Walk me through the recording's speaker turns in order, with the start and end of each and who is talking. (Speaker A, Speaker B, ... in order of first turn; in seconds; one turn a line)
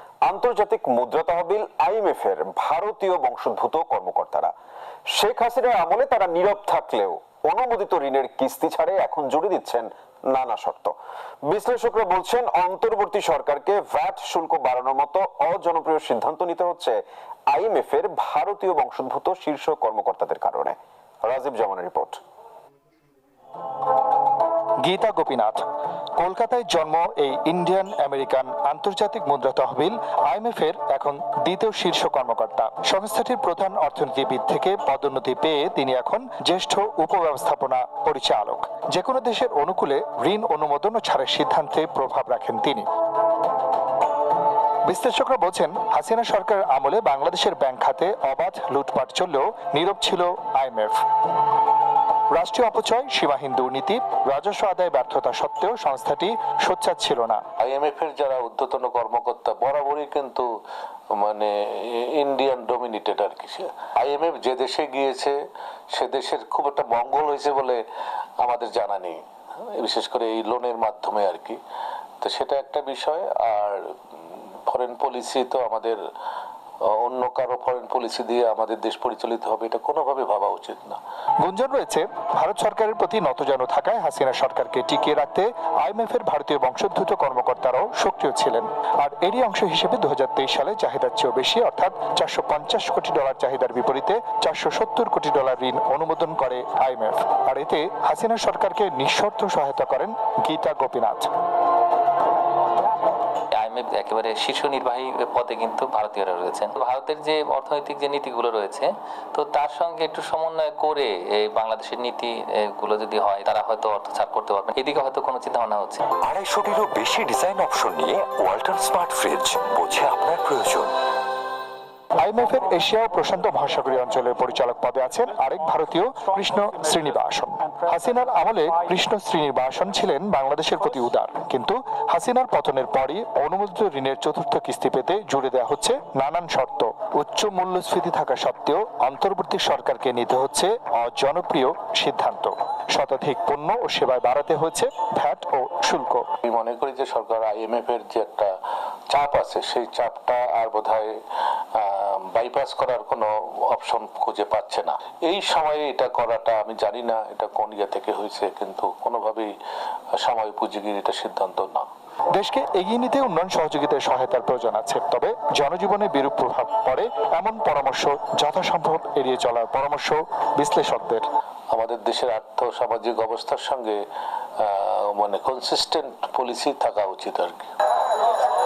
Speaker A: 0.2-4.5
Speaker A: 5.2-10.9
Speaker A: 11.5-17.0
Speaker A: 17.5-22.2
Speaker B: 24.8-25.6
Speaker B: 26.2-42.9
Speaker B: 44.9-51.0
Speaker B: 52.3-57.4
Speaker C: 57.6-60.5
Speaker C: 61.2-65.3
Speaker C: 66.0-67.8
Speaker C: 68.4-69.2
Speaker C: 69.8-71.6
Speaker C: 72.2-73.8
Speaker C: 74.7-76.0
Speaker C: 77.0-81.0
Speaker B: 81.4-101.3
Speaker D: 103.5-116.0
Speaker E: 116.2-121.0
Speaker B: 122.2-146.3
Speaker C: 146.4-148.5
Speaker C: 149.1-151.1
Speaker C: 151.8-159.5
Speaker C: 160.2-161.9
Speaker B: 162.3-171.2
Speaker C: 171.7-174.0
Speaker C: 174.6-177.7